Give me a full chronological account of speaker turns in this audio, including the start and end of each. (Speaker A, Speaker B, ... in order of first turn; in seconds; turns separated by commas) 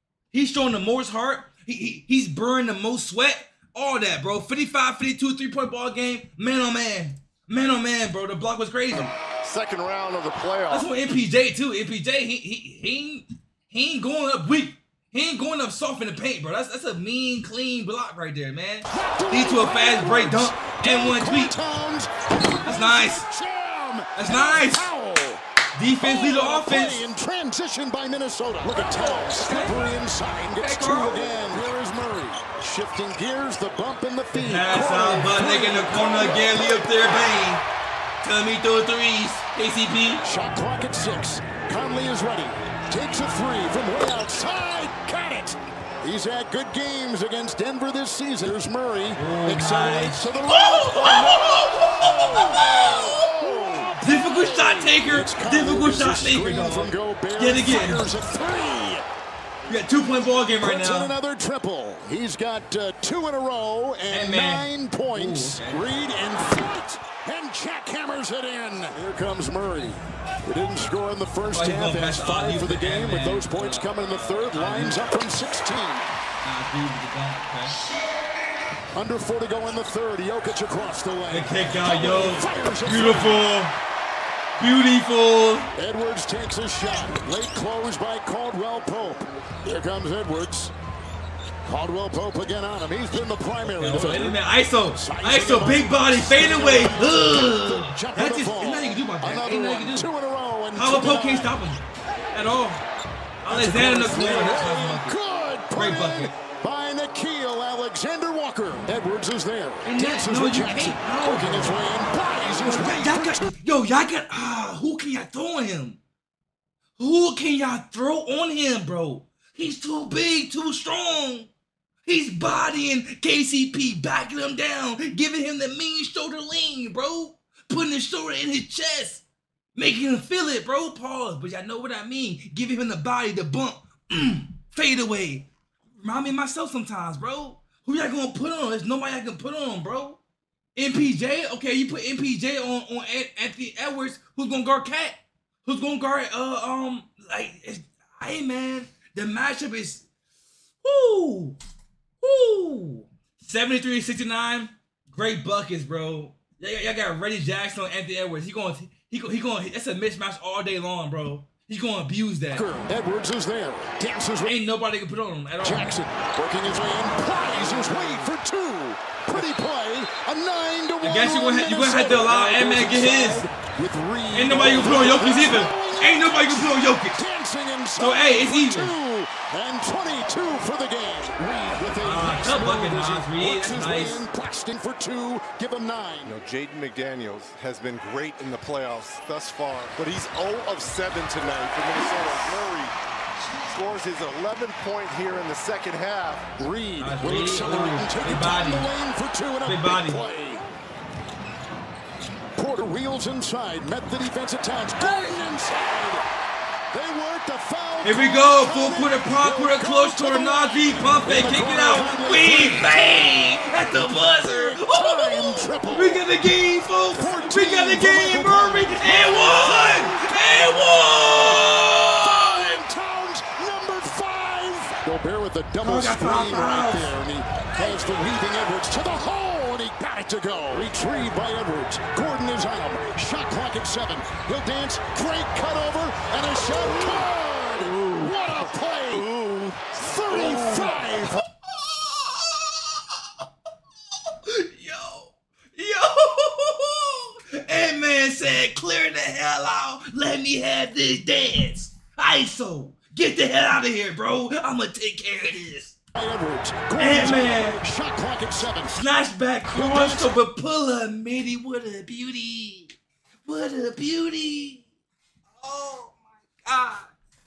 Speaker A: 0.3-9.1, Speaker B: 8.9-10.9, Speaker A: 10.7-21.6, Speaker C: 18.9-25.4, Speaker A: 22.6-23.3, Speaker A: 24.1-24.9, Speaker A: 25.7-27.1, Speaker C: 26.0-36.9, Speaker A: 28.7-29.8, Speaker A: 30.5-31.3, Speaker A: 34.3-37.6, Speaker A: 38.2-40.2, Speaker C: 40.2-59.0, Speaker A: 49.1-53.3, Speaker A: 54.0-58.1, Speaker A: 59.7-61.1, Speaker C: 60.6-76.1, Speaker A: 64.1-65.9, Speaker A: 71.5-75.0, Speaker A: 76.4-77.7, Speaker C: 78.9-83.4, Speaker A: 81.3-83.7, Speaker A: 84.6-85.7, Speaker C: 85.8-90.7, Speaker C: 91.6-94.4, Speaker A: 93.8-100.1, Speaker C: 94.9-101.5, Speaker A: 100.7-101.8, Speaker A: 102.3-102.8, Speaker A: 103.4-105.2, Speaker C: 103.5-113.5, Speaker A: 105.7-106.3, Speaker A: 109.8-111.8, Speaker A: 112.6-116.0, Speaker A: 117.0-121.5, Speaker A: 122.0-129.2, Speaker A: 129.7-135.5, Speaker A: 136.0-140.2, Speaker A: 140.7-150.1, Speaker A: 150.8-151.6, Speaker A: 152.2-162.7, Speaker C: 162.5-164.6, Speaker A: 164.4-166.0, Speaker C: 165.6-186.3, Speaker A: 171.0-173.4, Speaker A: 174.3-177.2, Speaker A: 178.0-178.9, Speaker A: 182.0-184.2, Speaker B: 186.2-192.9, Speaker B: 193.7-196.4, Speaker C: 196.6-200.6, Speaker A: 197.0-198.9, Speaker A: 199.6-200.2, Speaker C: 202.6-206.2, Speaker A: 205.0-205.3, Speaker C: 206.9-212.9, Speaker A: 208.0-222.8, Speaker C: 213.9-216.2, Speaker C: 217.1-239.3, Speaker A: 225.8-227.1, Speaker B: 237.9-238.3, Speaker B: 239.1-241.1, Speaker C: 239.9-241.4, Speaker A: 241.6-243.4, Speaker A: 244.1-256.0, Speaker C: 256.1-259.0, Speaker A: 256.9-257.8, Speaker A: 258.9-264.9, Speaker C: 259.7-260.4, Speaker A: 265.5-267.1